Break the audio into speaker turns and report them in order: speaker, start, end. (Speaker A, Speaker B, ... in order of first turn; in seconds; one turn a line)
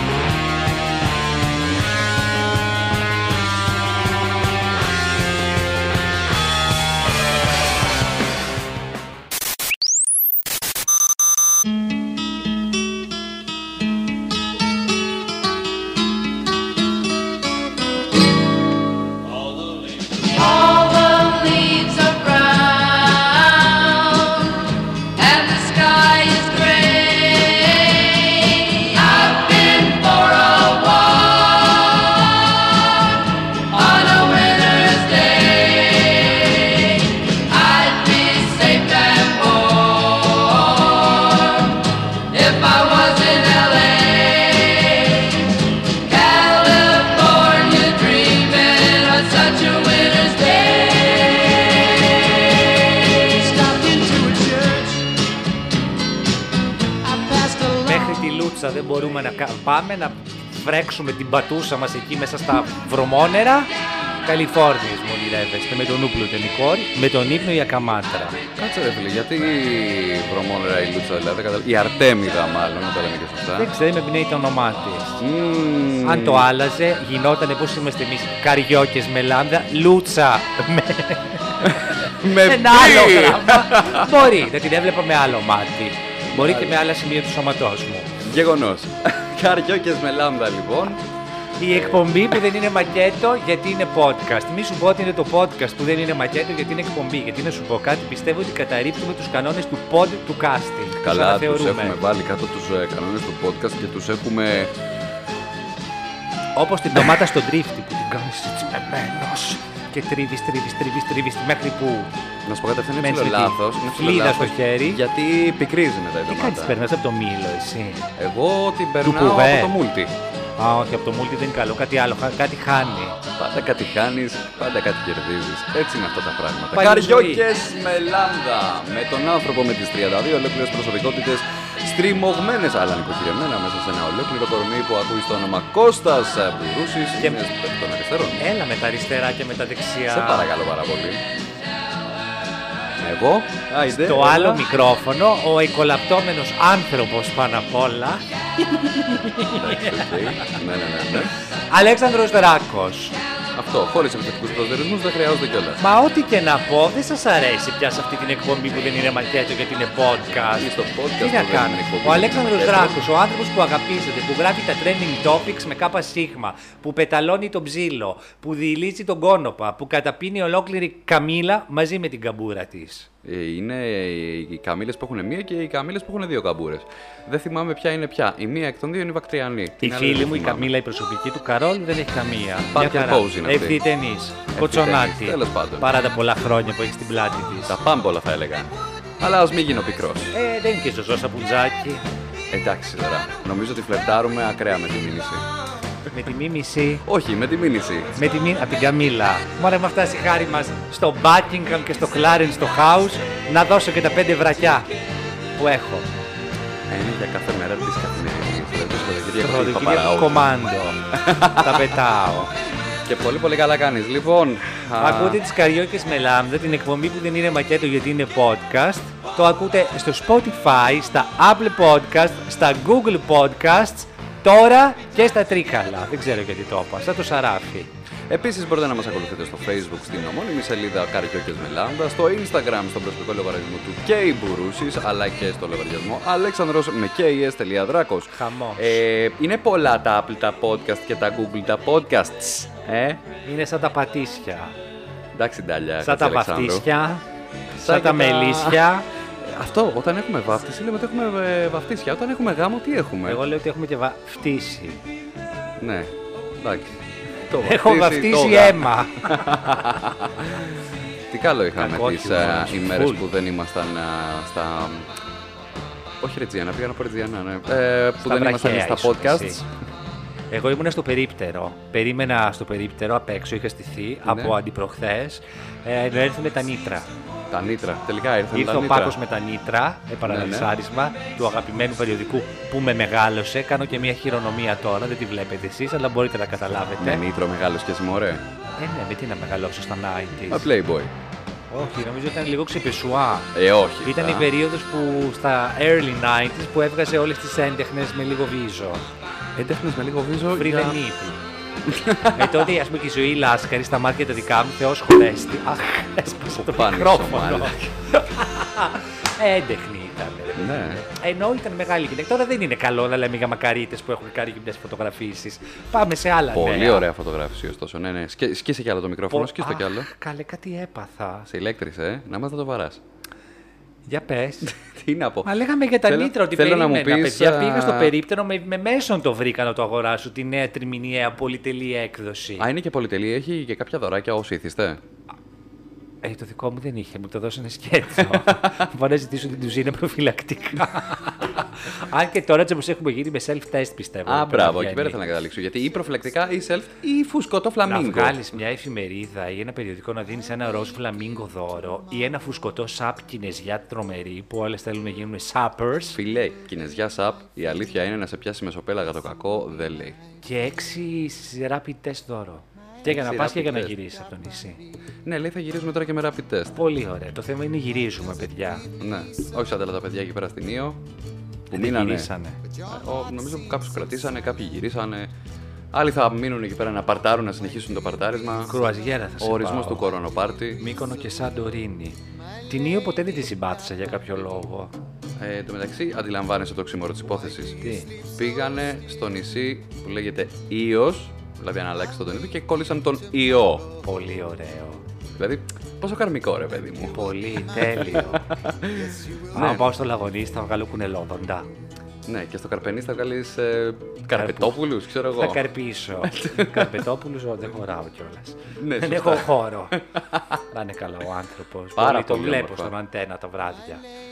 Speaker A: 19.5-55.0
Speaker A: 57.1-57.7
Speaker B: 57.7-63.7
Speaker B: 64.2-68.4
Speaker C: 68.5-73.7
Speaker B: 73.5-75.2
Speaker C: 75.2-76.5
Speaker B: 76.0-88.2
Speaker C: 81.6-84.3
Speaker C: 86.3-86.8
Speaker C: 88.2-91.0
Speaker B: 91.6-102.0
Speaker C: 91.6-92.5
Speaker C: 101.0-104.7
Speaker B: 106.5-112.1
Speaker C: 112.4-116.8
Speaker B: 113.0-115.0
Speaker B: 116.3-118.1
Speaker C: 118.2-120.1
Speaker B: 119.0-119.8
Speaker B: 120.6-123.2
Speaker C: 123.3-138.4
Speaker B: 126.7-127.5
Speaker B: 138.4-140.5
Speaker C: 140.1-141.2
Speaker C: 143.0-144.7
Speaker B: 143.9-148.2
Speaker B: 149.1-150.5
Speaker C: 149.2-151.3
Speaker B: 151.7-153.2
Speaker C: 153.5-155.8
Speaker B: 155.8-173.1
Speaker C: 160.4-163.1
Speaker C: 173.2-180.7
Speaker B: 179.8-187.8
Speaker C: 182.7-183.8
Speaker C: 184.5-185.9
Speaker C: 187.7-190.3
Speaker B: 190.3-192.0
Speaker C: 192.5-195.4
Speaker B: 196.1-197.0
Speaker C: 197.0-198.2
Speaker B: 198.2-204.9
Speaker B: 205.6-206.1
Speaker C: 206.9-210.4
Speaker B: 209.4-212.5
Speaker C: 211.1-211.9
Speaker C: 213.1-215.4
Speaker B: 215.0-227.9
Speaker C: 228.3-243.2
Speaker B: 238.3-239.0
Speaker B: 243.4-244.7
Speaker C: 245.3-246.8
Speaker B: 246.0-247.2
Speaker B: 247.8-249.1
Speaker C: 247.8-248.8
Speaker C: 249.4-253.4
Speaker B: 253.2-255.0
Speaker C: 255.8-257.0
Speaker C: 257.5-260.7
Speaker B: 257.6-259.9
Speaker C: 261.3-265.1
Speaker B: 261.8-263.2
Speaker C: 266.2-269.6
Speaker B: 268.2-269.6
Speaker B: 270.5-277.1
Speaker C: 274.2-274.5
Speaker C: 277.5-279.2
Speaker B: 278.5-287.2
Speaker C: 280.2-280.7
Speaker C: 287.0-288.4
Speaker B: 288.8-290.7
Speaker C: 290.5-291.1
Speaker B: 291.7-293.5
Speaker C: 293.5-294.5
Speaker B: 294.0-299.0
Speaker C: 299.6-301.0
Speaker B: 300.6-301.4
Speaker C: 301.9-302.7
Speaker B: 302.3-317.1
Speaker C: 306.5-307.9
Speaker C: 310.6-311.0
Speaker C: 316.5-320.1
Speaker B: 319.3-321.5
Speaker C: 321.5-323.0
Speaker B: 324.1-324.7
Speaker C: 324.6-325.5
Speaker B: 325.4-332.7
Speaker C: 326.0-328.1
Speaker C: 332.6-335.0
Speaker B: 336.2-345.2
Speaker C: 338.3-338.7
Speaker C: 344.2-348.4
Speaker B: 347.9-356.2
Speaker C: 356.1-360.2
Speaker B: 360.4-364.8
Speaker C: 363.0-363.9
Speaker C: 365.2-366.8
Speaker B: 366.8-368.9
Speaker C: 369.0-371.0
Speaker C: 371.7-372.3
Speaker B: 371.7-372.6
Speaker C: 372.8-375.3
Speaker C: 375.9-378.8
Speaker B: 378.7-380.1
Speaker C: 379.4-380.8
Speaker B: 380.8-384.9
Speaker C: 385.4-393.9
Speaker B: 387.8-388.1
Speaker B: 394.0-395.0
Speaker C: 395.4-397.2
Speaker B: 397.0-398.6
Speaker C: 397.8-399.9
Speaker B: 399.5-401.7
Speaker C: 402.2-405.7
Speaker B: 404.3-410.0
Speaker C: 406.2-406.9
Speaker C: 408.8-410.6
Speaker B: 410.7-414.0
Speaker C: 411.9-412.9